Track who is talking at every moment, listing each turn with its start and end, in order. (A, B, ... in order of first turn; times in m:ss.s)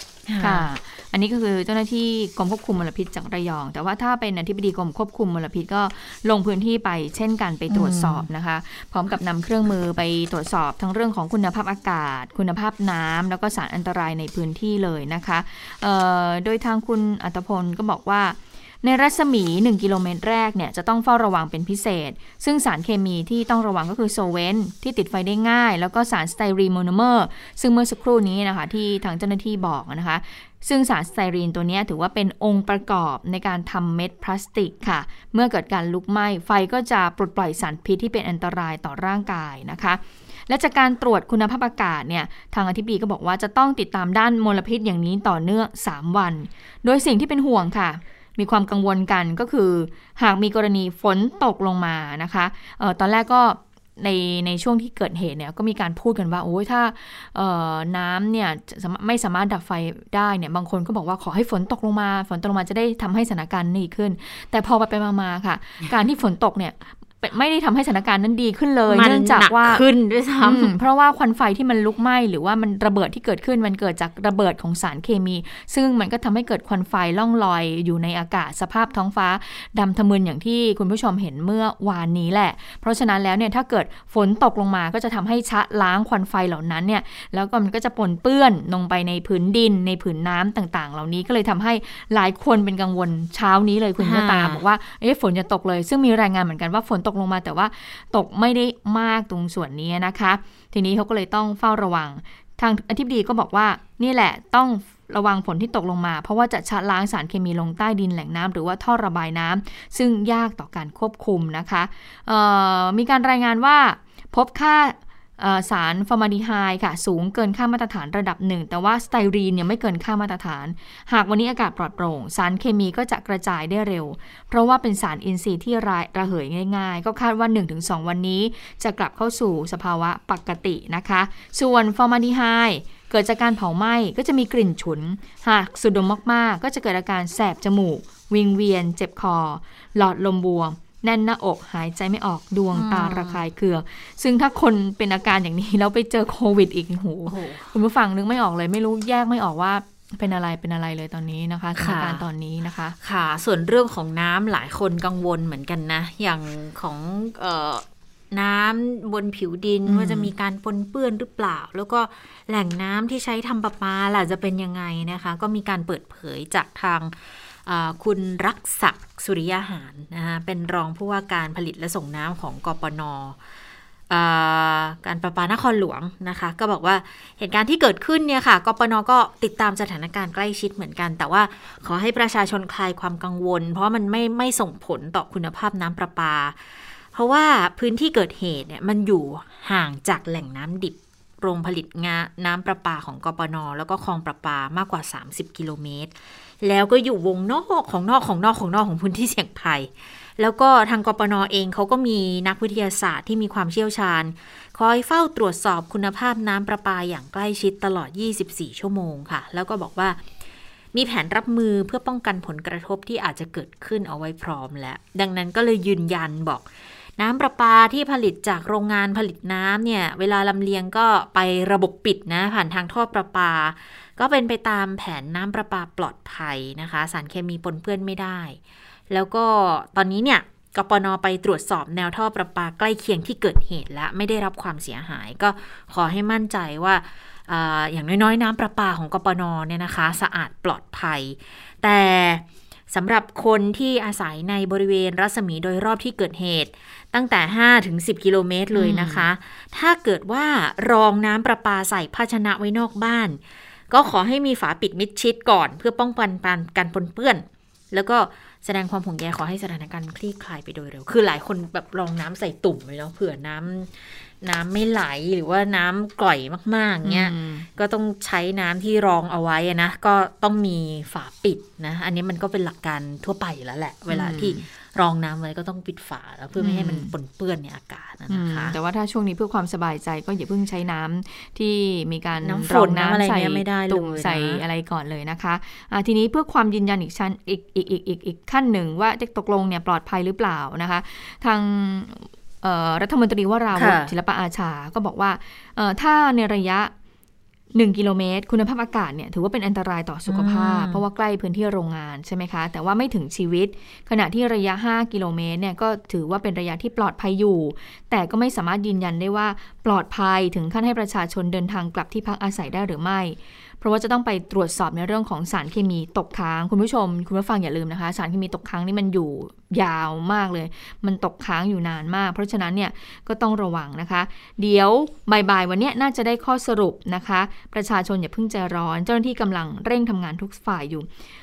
0:00.3-0:00.7 A
0:00.4-1:09.8 B
0:07.7-0:08.3 A
1:08.9-1:10.7 A
1:10.4-2:33.0 B
1:34.0-1:34.6 A
2:22.7-2:23.4 A
2:27.3-2:27.7 A
2:31.8-2:32.2 A
2:33.0-2:53.4 A
2:39.8-2:40.3 B
2:54.1-3:30.2 A
3:30.9-3:48.6 A
3:49.1-4:13.4 A
4:08.7-4:09.3 B
4:13.9-4:38.8 A
4:27.0-4:27.7 B
4:34.1-4:34.6 B
4:36.6-4:37.1 B
4:38.3-4:56.9 B
4:42.4-4:44.6 A
4:53.7-4:54.1 A
4:57.7-5:31.1 B
5:00.3-5:01.0 A